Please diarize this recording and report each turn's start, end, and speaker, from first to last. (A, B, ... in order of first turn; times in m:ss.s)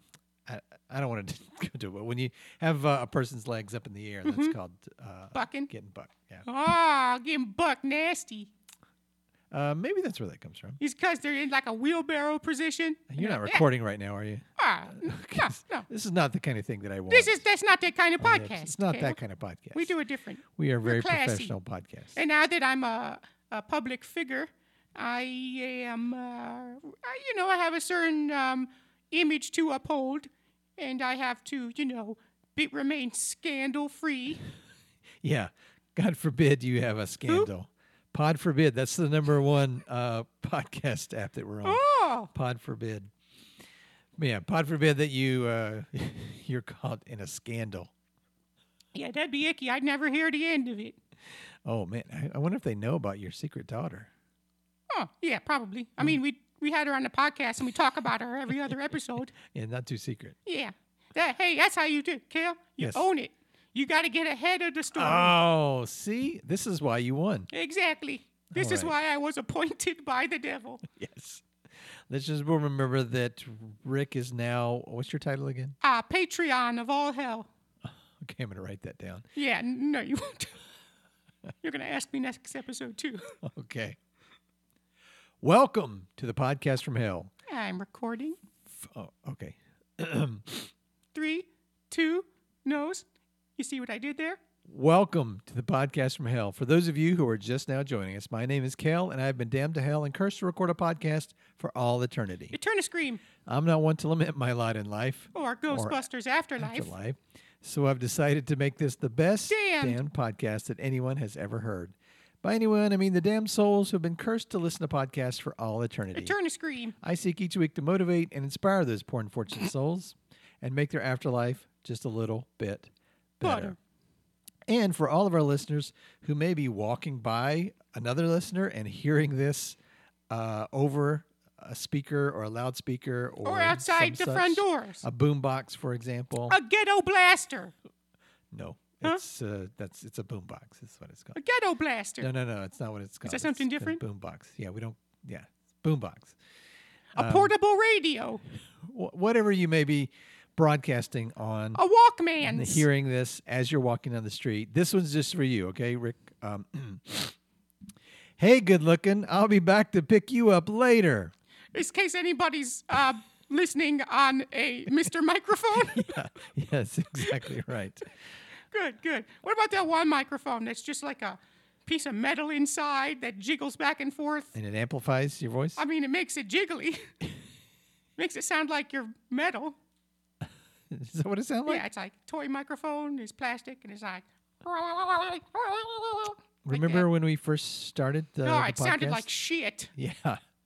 0:00.4-0:06.4 A
0:04.2-0:04.6 B
0:05.3-0:05.7 B
0:06.4-0:08.5 B
0:09.5-0:10.8 A
0:10.8-0:13.6 B
0:13.1-0:17.4 A
0:14.6-0:15.9 B
0:17.1-0:19.2 B
0:18.2-0:19.9 A
0:19.7-0:21.5 B
0:20.6-0:22.2 A
0:22.1-0:34.4 B
0:35.2-0:43.1 A
0:41.6-0:42.3 B
0:44.2-0:47.9 A
0:48.9-0:51.0 B
0:51.6-0:54.1 A
0:54.9-0:59.3 B
0:59.4-1:00.4 A
1:00.4-1:05.3 B
1:02.8-1:03.0 A
1:04.9-1:07.5 A
1:07.5-1:10.8 B
1:08.5-1:08.9 A
1:10.8-1:11.4 A
1:12.1-1:15.8 A
1:15.8-1:17.5 B
1:17.9-1:19.2 A
1:19.3-1:20.6 B
1:21.6-1:23.4 B
1:23.4-1:24.0 A
1:25.4-1:27.3 A
1:27.5-1:28.4 B
1:28.7-1:30.7 A
1:31.1-1:33.0 B
1:33.6-1:34.4 B
1:34.7-1:42.6 A
1:42.5-1:43.2 B
1:43.4-1:46.0 A
1:45.3-1:46.9 B
1:46.6-1:56.4 A
1:49.5-1:50.0 B
1:56.1-1:56.9 B
1:57.0-2:03.7 A
2:03.4-2:03.8 B
2:04.7-2:09.8 A
2:10.3-2:16.6 A
2:13.4-2:15.0 B
2:16.5-2:17.7 B
2:18.5-2:21.4 A
2:21.3-2:22.3 B
2:22.2-2:26.3 A
2:23.2-2:24.0 B
2:27.1-2:28.4 B
2:27.2-2:27.5 A
2:28.8-2:31.8 A
2:31.7-2:32.8 B
2:32.4-2:37.3 A
2:38.4-2:41.3 A
2:41.7-2:46.2 B
2:45.7-2:48.1 A
2:48.7-2:54.5 B
2:54.5-2:55.8 A
2:55.8-2:57.1 B
2:58.2-2:59.8 B
3:00.9-3:01.8 A
3:01.6-3:07.1 B
3:06.6-3:09.3 A
3:08.4-3:09.9 B
3:10.0-3:10.4 A